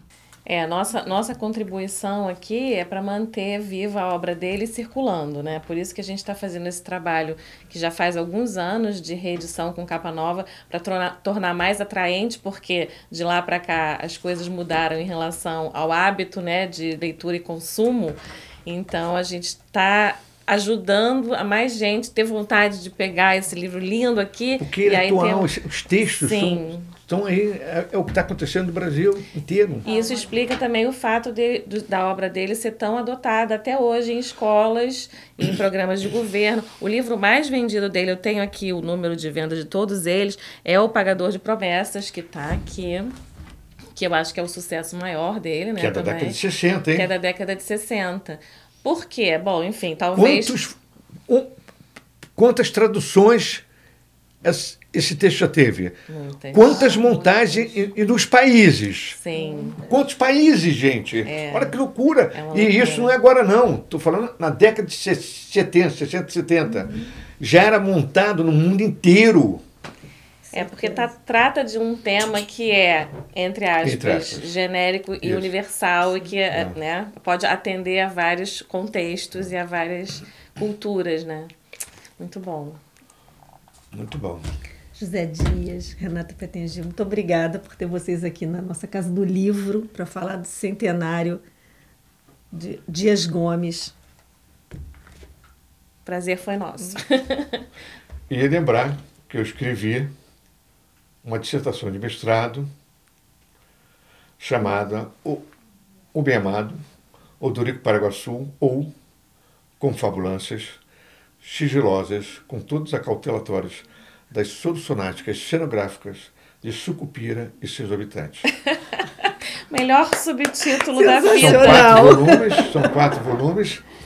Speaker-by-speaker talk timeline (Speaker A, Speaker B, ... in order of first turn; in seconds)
Speaker A: 0.5-25.5, 26.1-26.9, 29.9-43.1, 44.0-46.4, 46.9-50.6, 56.1-58.0, 59.2-59.8, 61.2-61.8, 62.3-63.1, 70.5-81.5, 82.2-82.8, 96.1-97.6, 118.8-122.4
Speaker B: 24.6-29.9, 45.8-47.1, 50.1-51.5, 52.4-53.6, 54.4-56.0, 56.5-59.2, 59.8-69.6, 73.8-74.5, 75.2-75.5, 76.5-76.8, 83.9-84.4, 98.3-100.1, 101.2-102.7, 104.4-105.5, 106.1-106.8, 107.4-108.9, 109.8-110.8, 111.4-118.5, 121.3-123.8
Speaker C: 29.9-30.3, 59.4-59.7, 70.5-71.1, 85.0-91.4, 92.5-93.9, 121.0-122.7